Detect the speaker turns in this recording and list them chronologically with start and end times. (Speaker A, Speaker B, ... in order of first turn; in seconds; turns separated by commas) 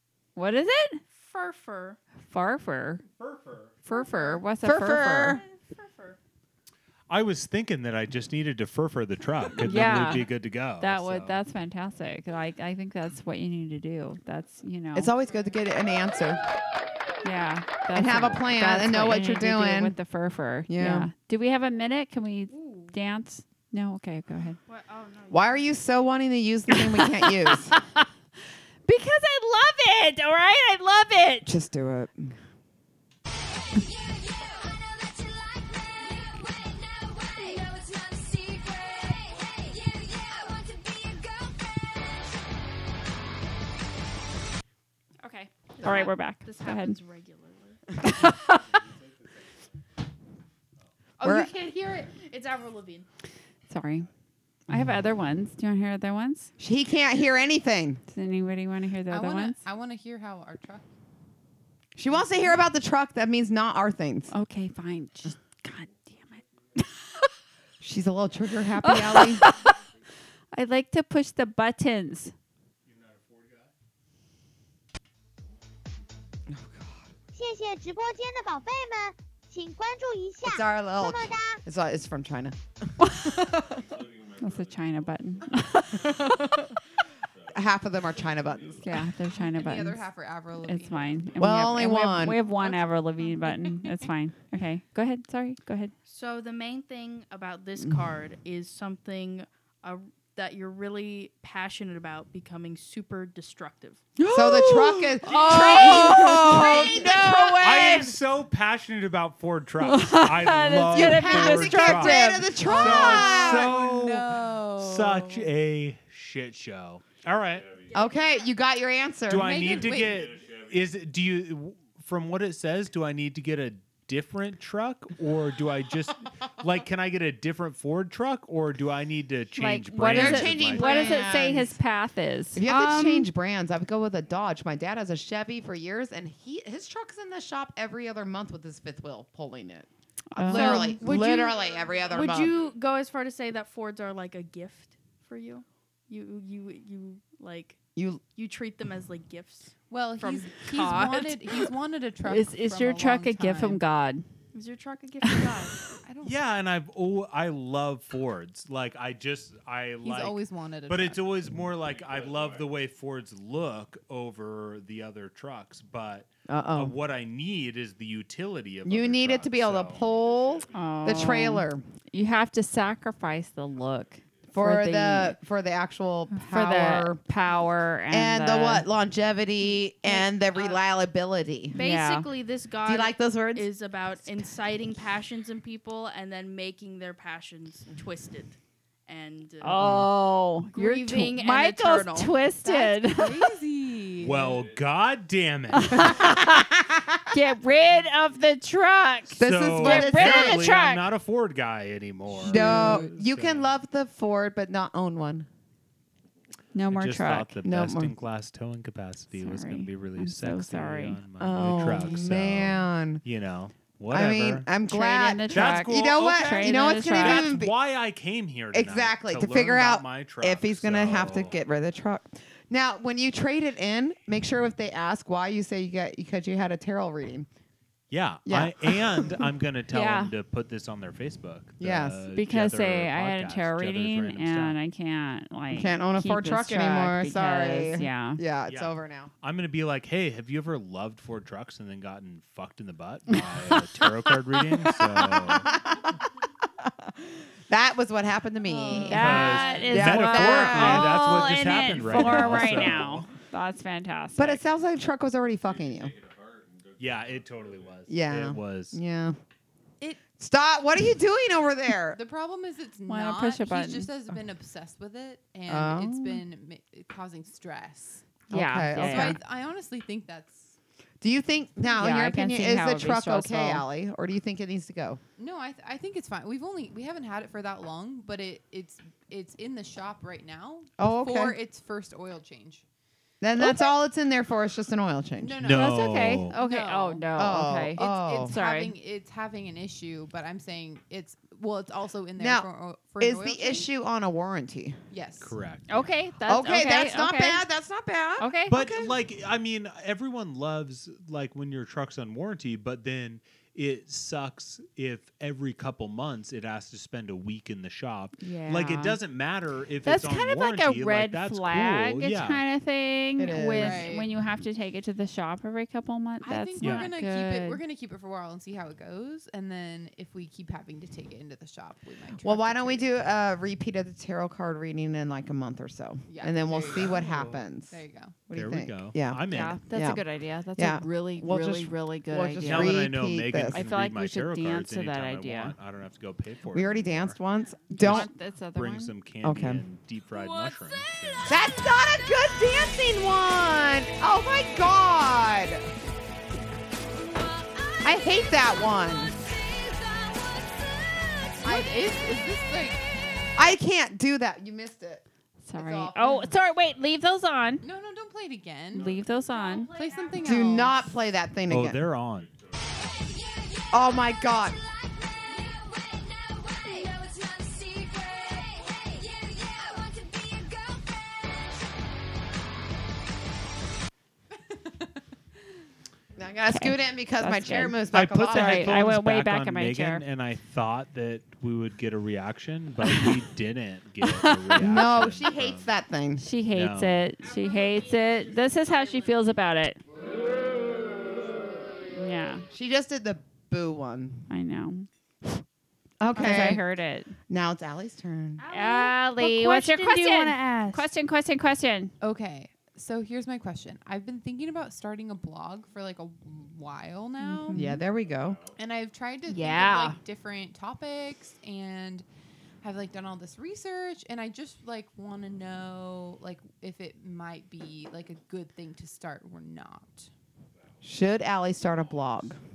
Speaker A: 0.3-1.0, Speaker B: 1.1-2.0, Speaker A: 2.2-3.0, Speaker C: 3.2-3.7, Speaker A: 3.9-5.4, Speaker B: 3.9-4.4, Speaker D: 4.6-5.4, Speaker B: 5.2-6.2, Speaker C: 7.1-11.4, Speaker A: 9.6-15.1, Speaker D: 14.9-16.4, Speaker A: 17.2-24.6, Speaker D: 17.9-20.0, Speaker D: 20.7-21.1, Speaker B: 22.5-22.9, Speaker B: 24.7-25.7, Speaker D: 25.3-27.7, Speaker A: 26.7-28.1, Speaker A: 28.8-31.5, Speaker D: 31.4-32.3, Speaker A: 45.2-47.0, Speaker B: 45.8-47.8, Speaker A: 48.0-48.6, Speaker E: 48.5-48.8, Speaker B: 51.2-53.1, Speaker D: 51.2-51.5, Speaker A: 53.7-54.1, Speaker A: 54.7-56.5, Speaker E: 56.6-57.5, Speaker D: 56.6-58.0, Speaker A: 58.1-59.6, Speaker F: 59.1-60.8, Speaker D: 62.0-64.3, Speaker A: 64.3-67.3, Speaker E: 66.1-66.5, Speaker D: 67.8-69.4, Speaker A: 68.8-69.7, Speaker E: 69.4-69.7, Speaker A: 70.5-72.3, Speaker D: 76.5-77.0, Speaker G: 77.3-81.6, Speaker D: 80.4-83.9, Speaker A: 83.0-83.3, Speaker E: 83.5-86.5, Speaker A: 84.4-86.5, Speaker D: 85.9-86.8, Speaker E: 87.2-89.2, Speaker D: 87.5-89.0, Speaker A: 88.8-90.1, Speaker F: 89.3-91.3, Speaker A: 90.6-95.9, Speaker E: 90.9-91.5, Speaker D: 91.4-92.4, Speaker F: 92.3-94.0, Speaker B: 96.0-104.0, Speaker A: 104.2-108.0, Speaker D: 104.3-108.1, Speaker B: 105.3-106.9, Speaker F: 106.3-106.8, Speaker C: 107.5-117.7, Speaker A: 109.8-112.5, Speaker D: 110.9-113.8, Speaker F: 112.6-115.5, Speaker E: 117.2-118.1, Speaker D: 117.9-119.6, Speaker C: 119.3-131.2, Speaker F: 119.3-120.4, Speaker E: 119.5-121.0, Speaker A: 129.6-132.6, Speaker D: 130.1-131.8, Speaker D: 132.5-142.6, Speaker B: 132.7-133.3, Speaker A: 140.3-141.4, Speaker B: 140.5-141.5, Speaker E: 141.4-142.7, Speaker B: 142.1-147.8, Speaker D: 147.9-148.2, Speaker B: 148.3-151.7, Speaker F: 149.9-153.8, Speaker A: 152.2-154.2, Speaker B: 154.5-155.8, Speaker A: 155.2-155.7, Speaker F: 156.0-156.4, Speaker C: 156.2-170.0, Speaker F: 160.0-161.2, Speaker E: 161.6-162.8, Speaker D: 166.5-166.9, Speaker D: 168.8-171.8, Speaker E: 169.7-171.4, Speaker A: 170.7-175.4, Speaker E: 174.1-174.5, Speaker D: 174.5-177.2, Speaker A: 176.3-178.9, Speaker D: 178.1-181.7, Speaker B: 180.1-180.8, Speaker B: 181.7-188.6, Speaker A: 181.7-182.3, Speaker D: 182.8-183.7, Speaker B: 189.1-189.9, Speaker A: 189.6-193.4, Speaker B: 190.7-192.4, Speaker F: 192.6-194.6, Speaker C: 194.2-196.3, Speaker E: 194.3-195.2, Speaker A: 195.7-196.7, Speaker D: 196.4-197.1, Speaker A: 197.3-201.0, Speaker D: 199.4-200.6, Speaker C: 199.4-203.7, Speaker D: 202.4-205.5, Speaker F: 202.4-203.1, Speaker A: 206.7-207.6, Speaker C: 206.9-214.7, Speaker D: 207.6-208.1, Speaker A: 209.3-211.2, Speaker D: 211.4-213.2, Speaker D: 214.1-217.7, Speaker A: 214.9-217.6, Speaker C: 215.5-221.6, Speaker D: 218.7-227.5, Speaker C: 228.1-234.8, Speaker D: 228.4-229.5, Speaker A: 229.9-230.3, Speaker D: 231.8-232.2, Speaker A: 232.3-238.4, Speaker D: 235.7-239.3, Speaker C: 238.7-245.7, Speaker A: 243.3-243.8, Speaker D: 245.3-246.2, Speaker D: 246.8-251.2, Speaker F: 248.6-250.2, Speaker A: 249.0-254.6, Speaker C: 249.1-253.3, Speaker D: 254.3-256.1, Speaker E: 255.6-258.2, Speaker C: 257.0-259.0, Speaker D: 258.1-259.4, Speaker D: 260.4-262.2, Speaker F: 262.1-268.3, Speaker A: 263.1-264.1, Speaker D: 265.7-266.4, Speaker A: 268.5-269.4, Speaker D: 268.5-269.4, Speaker F: 268.9-270.7, Speaker D: 271.2-275.2, Speaker A: 271.9-273.8, Speaker F: 275.4-282.8, Speaker D: 281.0-281.6, Speaker D: 283.4-285.6, Speaker F: 285.4-287.3, Speaker C: 285.6-286.6, Speaker A: 285.7-288.9, Speaker D: 287.3-288.5, Speaker F: 288.0-293.9, Speaker D: 292.4-292.7, Speaker D: 293.2-295.0, Speaker F: 295.1-295.6, Speaker C: 295.4-296.1, Speaker A: 295.9-297.6, Speaker D: 296.4-299.1, Speaker A: 298.4-298.8, Speaker C: 298.7-312.6, Speaker A: 308.4-309.2, Speaker A: 310.0-317.8, Speaker D: 313.4-314.1, Speaker F: 313.8-314.3, Speaker F: 316.4-323.1, Speaker C: 316.8-317.1, Speaker D: 322.4-330.2, Speaker F: 326.3-328.4, Speaker C: 328.5-329.8, Speaker A: 329.5-333.1, Speaker D: 330.8-333.8, Speaker C: 332.6-337.4, Speaker A: 333.7-335.8, Speaker D: 336.7-338.3, Speaker A: 337.9-339.1, Speaker C: 337.9-341.6, Speaker D: 339.4-339.8, Speaker D: 341.4-345.9, Speaker D: 348.0-349.4, Speaker F: 351.6-353.4, Speaker D: 353.6-355.2, Speaker A: 355.6-357.8, Speaker D: 355.8-356.5, Speaker F: 357.8-359.1, Speaker A: 358.9-359.9, Speaker B: 359.3-360.7, Speaker F: 359.9-361.1, Speaker D: 360.4-362.0, Speaker C: 361.7-362.5, Speaker E: 362.2-363.3, Speaker D: 363.9-364.8, Speaker F: 374.6-375.2, Speaker D: 376.4-379.0, Speaker A: 376.7-380.2, Speaker C: 378.1-385.9, Speaker A: 383.0-383.4, Speaker A: 384.2-385.1, Speaker D: 384.8-386.4, Speaker A: 386.4-390.0, Speaker C: 386.7-387.2, Speaker B: 387.4-389.3, Speaker A: 392.1-392.6, Speaker D: 392.7-394.5, Speaker A: 394.5-395.6, Speaker D: 396.2-396.8, Speaker A: 396.3-397.3, Speaker D: 397.5-398.6, Speaker B: 398.6-401.1, Speaker A: 398.7-402.1, Speaker F: 402.2-407.8, Speaker A: 407.4-408.0, Speaker D: 407.7-408.6, Speaker E: 408.1-408.8, Speaker F: 408.8-412.2, Speaker A: 409.5-410.2, Speaker F: 412.8-420.3, Speaker D: 421.0-422.6, Speaker E: 421.8-422.6